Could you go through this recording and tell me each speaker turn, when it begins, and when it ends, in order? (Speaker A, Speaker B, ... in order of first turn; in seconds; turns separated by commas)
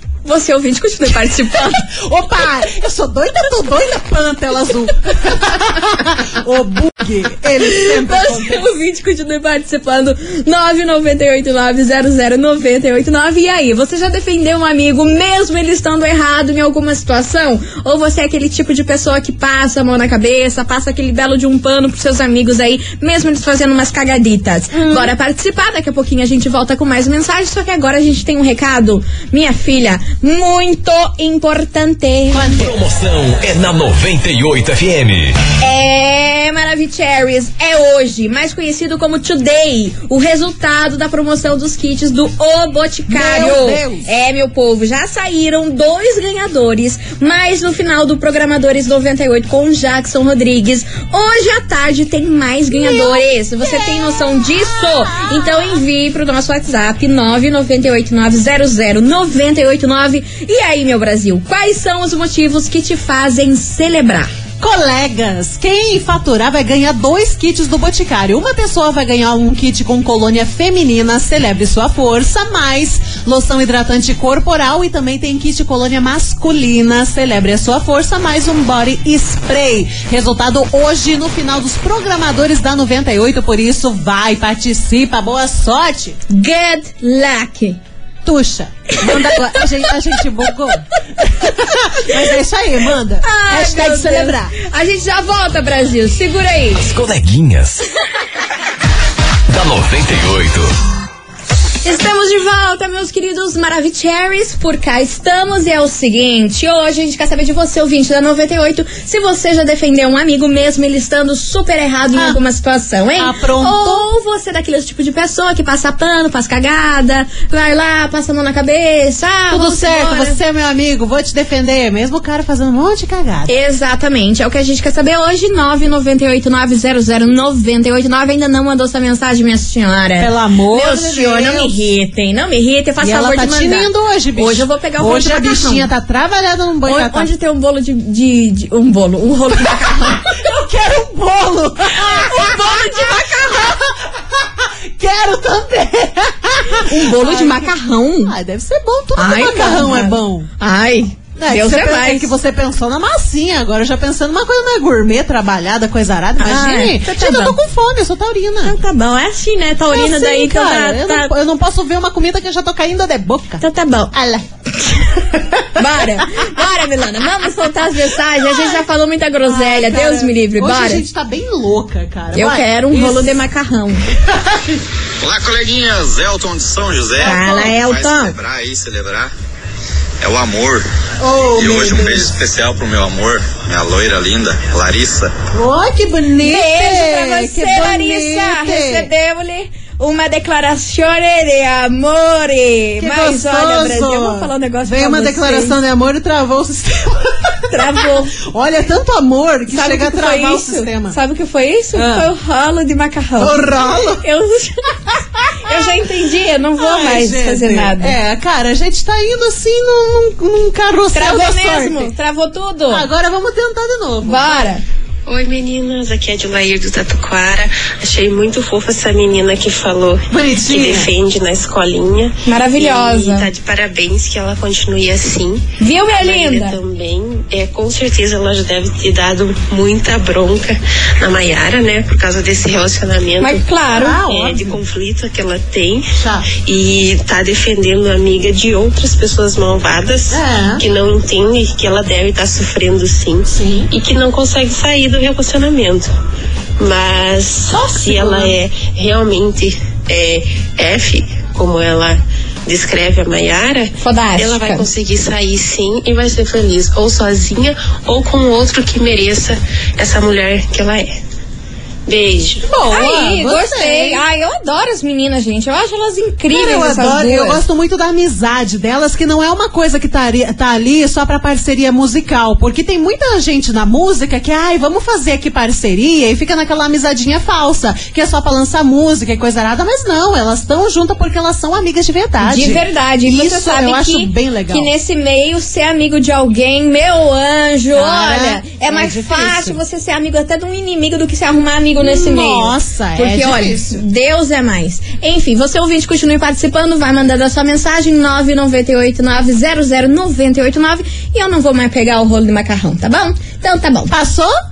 Speaker A: 0.2-1.9, Speaker B: 1.8-8.6, Speaker A: 7.6-32.6, Speaker B: 24.7-25.1, Speaker B: 32.3-32.7, Speaker C: 32.5-35.4, Speaker A: 35.6-64.3, Speaker B: 43.1-44.1, Speaker B: 52.7-55.8, Speaker B: 64.6-86.2, Speaker A: 86.3-87.8, Speaker B: 88.2-94.5, Speaker A: 89.0-89.6, Speaker A: 93.2-96.8, Speaker C: 96.8-97.8, Speaker C: 99.5-100.7, Speaker A: 101.8-120.4, Speaker B: 112.1-112.4, Speaker B: 113.2-114.1, Speaker B: 119.5-123.5, Speaker A: 123.5-135.9, Speaker B: 130.2-131.8, Speaker B: 133.0-137.3, Speaker A: 136.8-140.3, Speaker B: 140.2-150.5, Speaker A: 141.9-143.8, Speaker A: 146.8-148.3, Speaker A: 149.2-152.3, Speaker B: 151.3-158.8, Speaker A: 156.4-157.6, Speaker A: 158.6-161.3, Speaker B: 159.9-164.4, Speaker A: 163.6-164.1, Speaker B: 165.0-166.2, Speaker A: 165.7-171.0, Speaker B: 168.3-168.8, Speaker B: 169.4-173.4, Speaker A: 172.3-174.1, Speaker B: 174.2-174.8, Speaker D: 175.2-179.3, Speaker A: 177.2-178.3, Speaker B: 177.2-177.8, Speaker D: 180.2-180.8, Speaker B: 181.2-182.3, Speaker D: 181.6-185.3, Speaker B: 185.5-189.1, Speaker A: 186.4-195.8, Speaker B: 193.0-201.2, Speaker A: 197.7-198.3, Speaker A: 199.7-208.2, Speaker B: 201.9-202.3, Speaker B: 203.4-204.2, Speaker B: 205.6-206.0, Speaker B: 206.8-212.1, Speaker A: 211.1-213.1, Speaker B: 212.9-214.7, Speaker A: 214.2-214.8, Speaker E: 215.3-233.6, Speaker B: 220.3-221.1, Speaker A: 222.4-223.5, Speaker A: 225.8-226.8, Speaker A: 233.4-234.2, Speaker B: 233.9-234.8, Speaker E: 234.3-236.1, Speaker B: 236.2-236.5, Speaker E: 236.6-246.1, Speaker B: 240.3-240.8, Speaker B: 243.5-243.9, Speaker E: 246.8-261.1, Speaker B: 247.7-248.6, Speaker A: 254.0-254.8, Speaker E: 262.1-262.6, Speaker B: 262.6-264.2, Speaker A: 262.8-267.6, Speaker B: 266.5-284.9, Speaker A: 282.4-304.1, Speaker B: 287.9-289.8, Speaker B: 292.0-294.0, Speaker B: 304.1-304.5